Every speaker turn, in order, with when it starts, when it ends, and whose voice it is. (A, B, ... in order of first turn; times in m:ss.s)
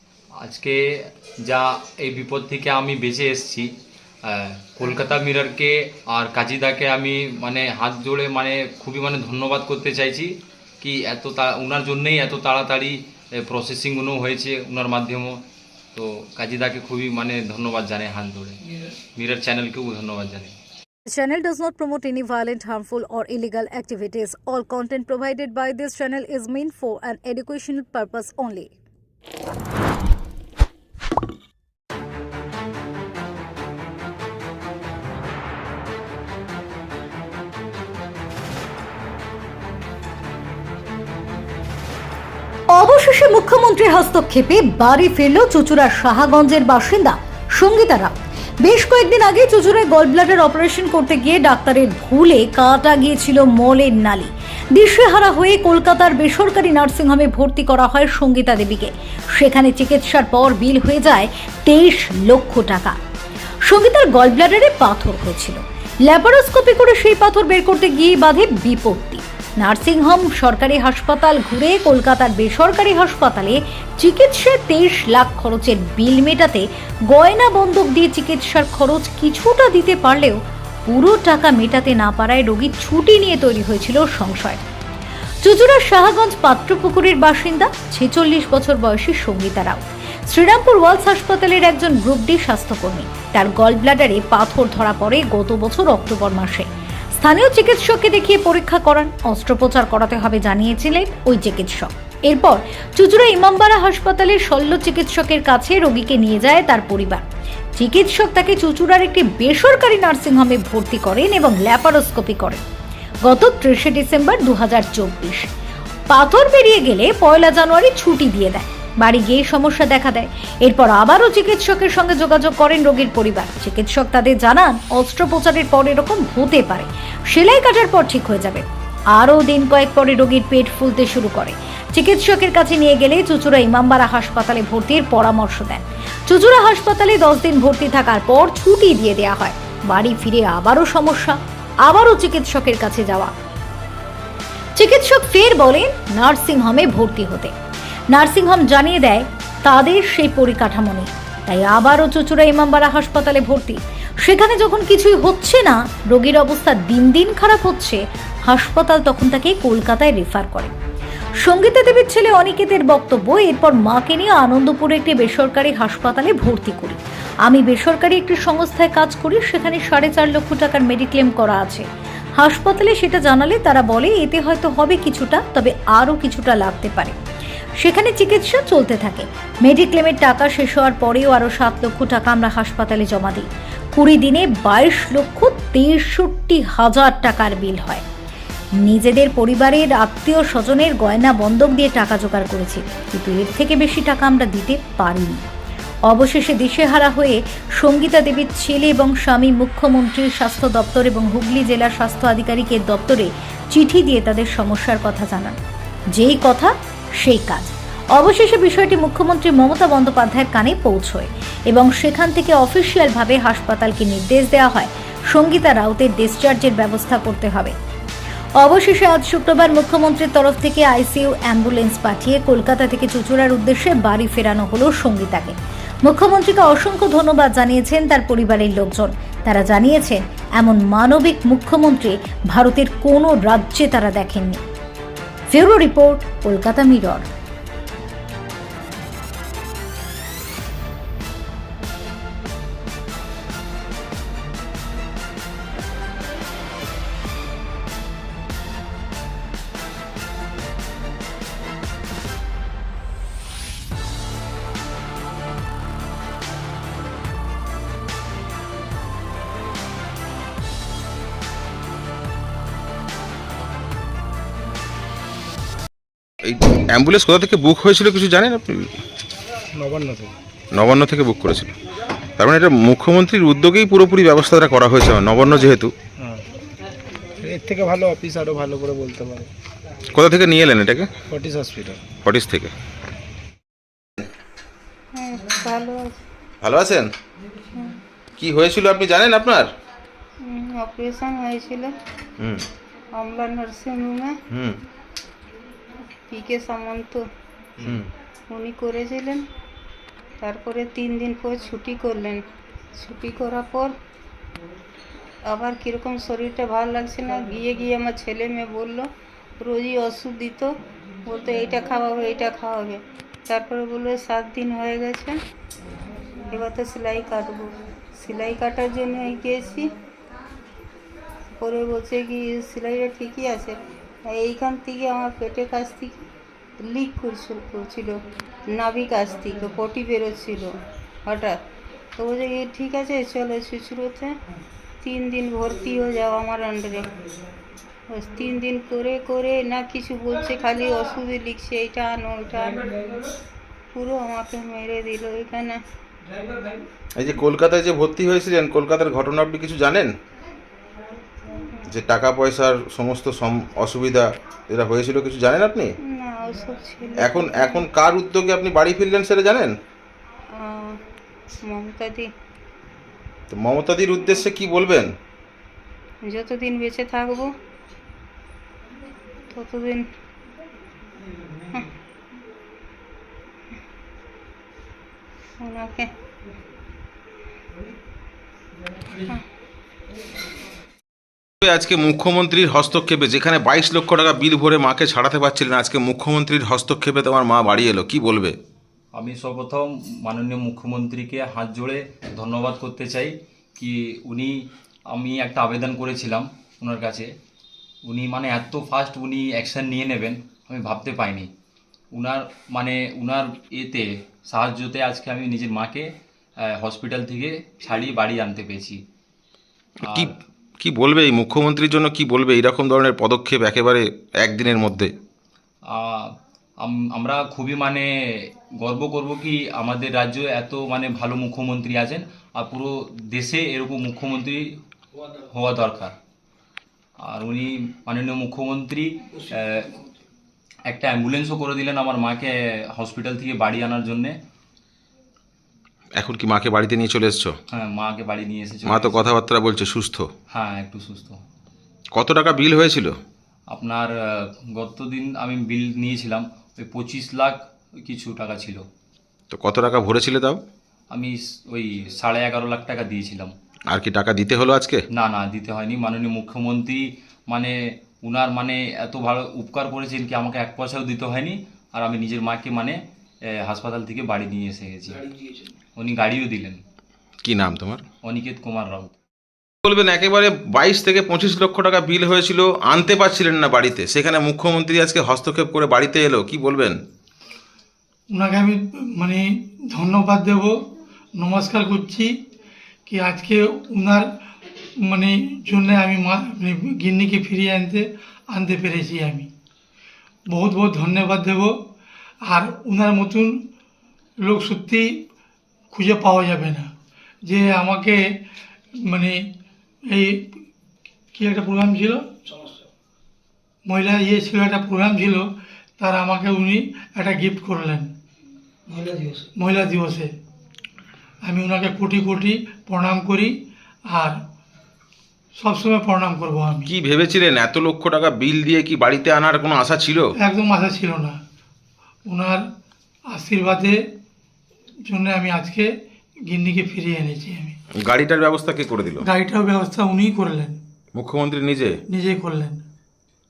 0:00.4-0:00.8 A
0:01.4-0:03.7 A
0:04.3-0:15.4 A
0:15.9-0:18.6 A
0:19.2-0:20.5 A
0:21.1-0:28.8 B
0:42.7-1:03.0 B
1:03.7-1:24.6 B
1:25.4-1:36.7 B
1:37.2-1:47.2 B
1:47.8-1:52.6 B
1:53.3-1:55.4 B
1:56.1-2:23.3 B
2:24.8-2:27.5 B
2:28.1-2:40.7 B
2:41.4-2:51.8 B
2:52.4-2:57.2 B
2:57.8-3:08.0 B
3:08.8-3:15.4 B
3:16.1-3:25.6 B
3:26.2-3:37.8 B
3:38.6-3:54.6 B
3:55.5-3:57.3 B
4:26.4-4:28.9 C
4:29.7-4:30.3 D
4:30.7-4:31.7 C
4:32.4-4:35.9 C
4:37.4-4:39.5 D
4:40.1-4:41.1 C
4:41.3-4:42.0 D
4:42.2-4:42.7 C
4:45.2-4:46.2 E
4:46.6-4:47.1 C
4:48.4-4:49.7 C
4:50.5-4:51.9 E
4:53.2-4:54.3 E
4:54.5-4:54.8 C
4:56.3-4:57.2 E
4:58.5-4:59.4 E
5:00.4-5:02.4 E
5:03.0-5:03.9 E
5:05.5-5:09.1 E
5:09.6-5:10.7 E
5:11.3-5:15.4 E
5:16.5-5:19.9 E
5:21.6-5:23.8 E
5:24.3-5:26.2 E
5:26.8-5:28.2 E
5:28.7-5:31.6 E
5:32.2-5:34.3 E
5:35.0-5:37.1 E
5:38.1-5:42.8 E
5:43.9-5:45.8 E
5:47.2-5:50.1 C
5:51.9-5:55.9 C
5:56.1-5:57.8 E
5:57.2-5:59.7 C
6:00.6-6:01.0 E
6:01.7-6:02.3 E
6:03.5-6:05.1 C
6:06.3-6:07.5 E
6:09.5-6:10.0 E
6:15.6-6:16.1 E
6:21.6-6:28.6 C
6:29.1-6:34.6 A
6:35.1-6:37.3 A
6:38.0-6:41.5 A
6:42.1-6:46.1 A
6:46.6-6:49.0 A
6:50.8-6:55.1 C
6:55.9-6:56.3 A
6:56.8-7:04.7 A
7:05.4-7:06.2 A
7:07.3-7:10.0 A
7:10.9-7:14.4 A
7:16.2-7:17.6 C
7:17.7-7:19.4 A
7:18.9-7:20.3 C
7:20.5-7:21.4 A
7:22.2-7:23.2 C
7:23.7-7:28.8 A
7:29.5-7:30.6 C
7:31.1-7:33.5 A
7:33.9-7:35.0 C
7:35.1-7:43.0 A
7:43.6-7:45.3 A
7:46.0-7:46.8 A
7:47.4-7:48.0 C
7:48.2-7:49.1 A
7:49.8-7:57.0 C
7:58.3-8:00.8 F
8:01.4-8:02.3 F
8:03.1-8:04.3 F
8:05.0-8:09.5 F
8:10.5-8:11.8 F
8:12.4-8:13.6 F
8:14.4-8:15.2 F
8:15.9-8:16.9 F
8:17.4-8:18.2 F
8:19.0-8:19.4 F
8:20.1-8:20.5 F
8:21.4-8:22.3 F
8:23.9-8:28.1 F
8:29.6-8:30.3 F
8:31.4-8:33.6 F
8:34.1-8:34.4 F
8:35.6-8:36.9 F
8:36.9-8:40.3 C
8:40.4-8:41.4 F
8:42.3-8:42.6 F
8:43.3-8:44.0 F
8:45.1-8:45.9 F
8:46.5-8:47.8 F
8:48.0-8:49.2 C
8:49.2-8:50.8 F
8:51.1-8:51.9 C
8:52.1-8:52.8 F